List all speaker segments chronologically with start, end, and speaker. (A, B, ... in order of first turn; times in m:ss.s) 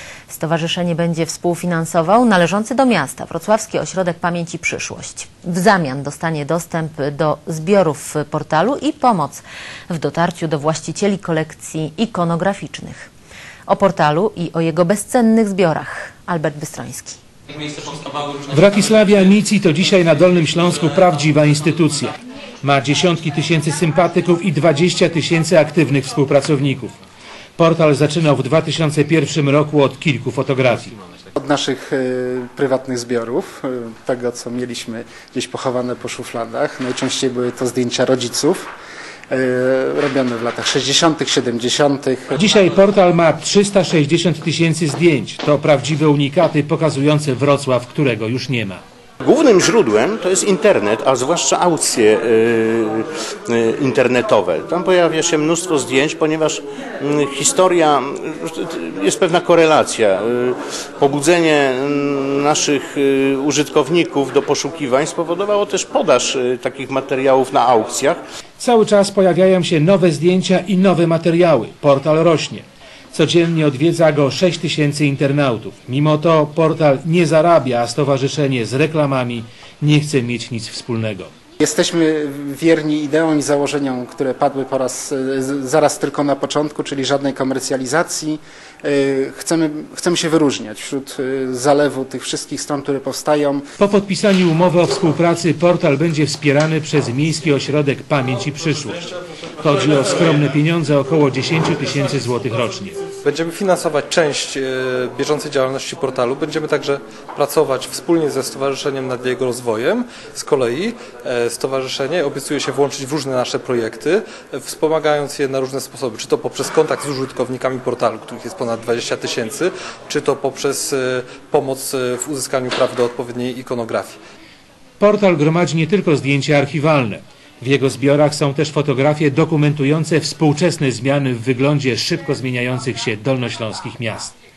0:00.3-0:13.1 A
0:13.7-0:17.2 A
0:17.9-0:26.9 B
0:27.6-0:30.9 B
0:31.4-0:38.7 C
0:39.3-0:42.4 C
0:42.4-0:48.8 B
0:49.2-1:08.2 D
1:08.6-1:21.3 B
1:21.6-1:33.6 C
1:33.8-1:43.0 B
1:43.2-2:04.2 E
2:05.0-2:14.3 B